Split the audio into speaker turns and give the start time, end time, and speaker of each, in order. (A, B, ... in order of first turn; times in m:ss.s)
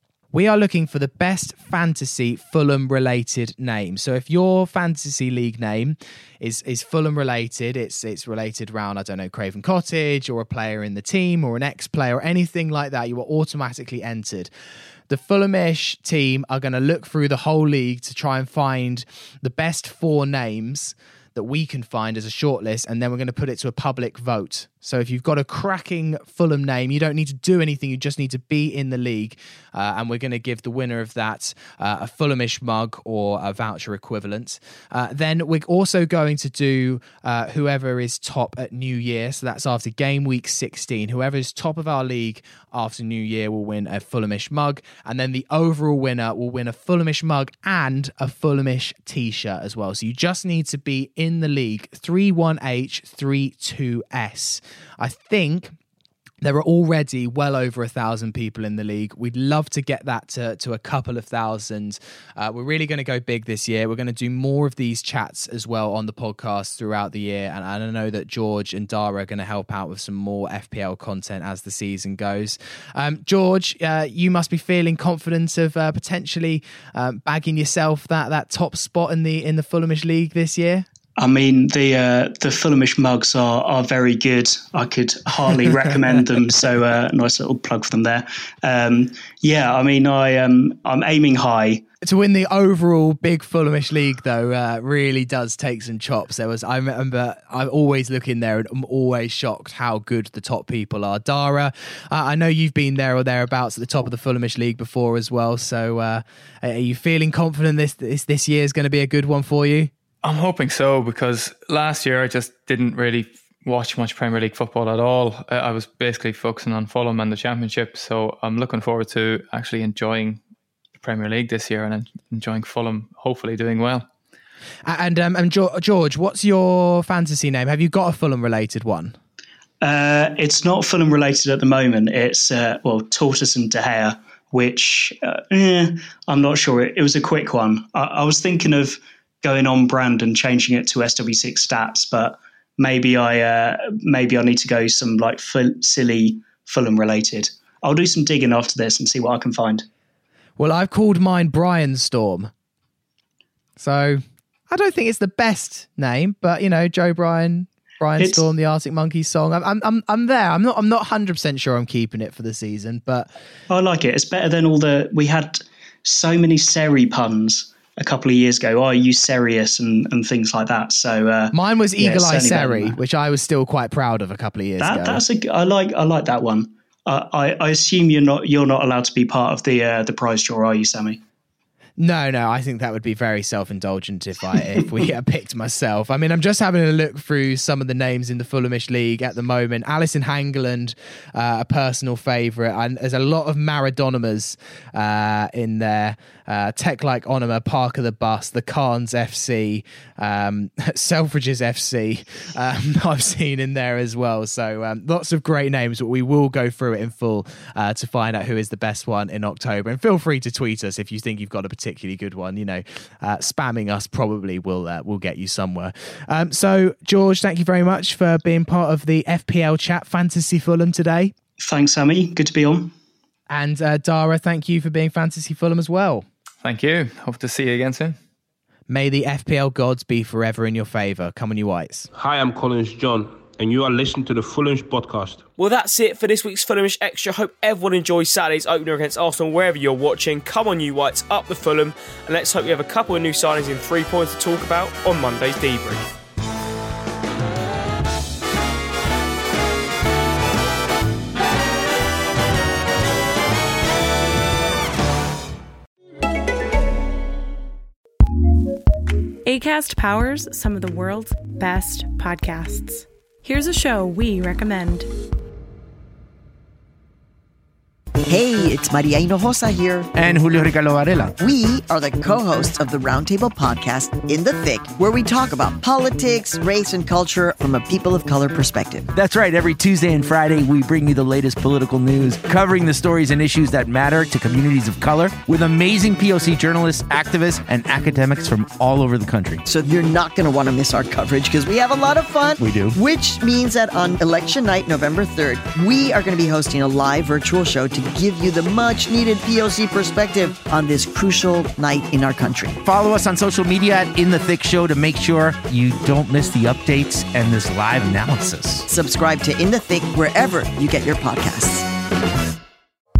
0:00.3-0:14.5 A
0:15.1-0:55.8 A
0:56.4-1:20.8 A
1:21.2-1:31.8 B
1:32.0-1:49.9 A
1:50.2-2:00.4 C
2:01.0-2:04.1 C
2:04.9-2:09.2 A
2:09.8-2:29.8 B
2:30.6-2:32.5 A
2:33.8-2:43.3 A
2:38.2-2:38.4 B
2:43.7-2:53.0 B
2:51.5-2:55.2 A
2:54.8-3:01.2 B
3:02.0-3:41.3 A
3:41.6-3:42.9 B
3:43.5-3:46.2 A
3:46.6-3:48.2 C
3:48.9-3:52.1 A
3:52.1-3:55.4 D
3:55.6-4:06.1 E
4:19.4-4:25.1 F
4:28.2-4:30.1 G
4:30.1-4:31.3 H
4:31.4-4:39.1 G
4:39.1-4:49.6 H
4:49.7-5:02.8 G
4:52.6-4:53.0 H
5:02.8-5:08.9 H
5:08.9-5:11.9 G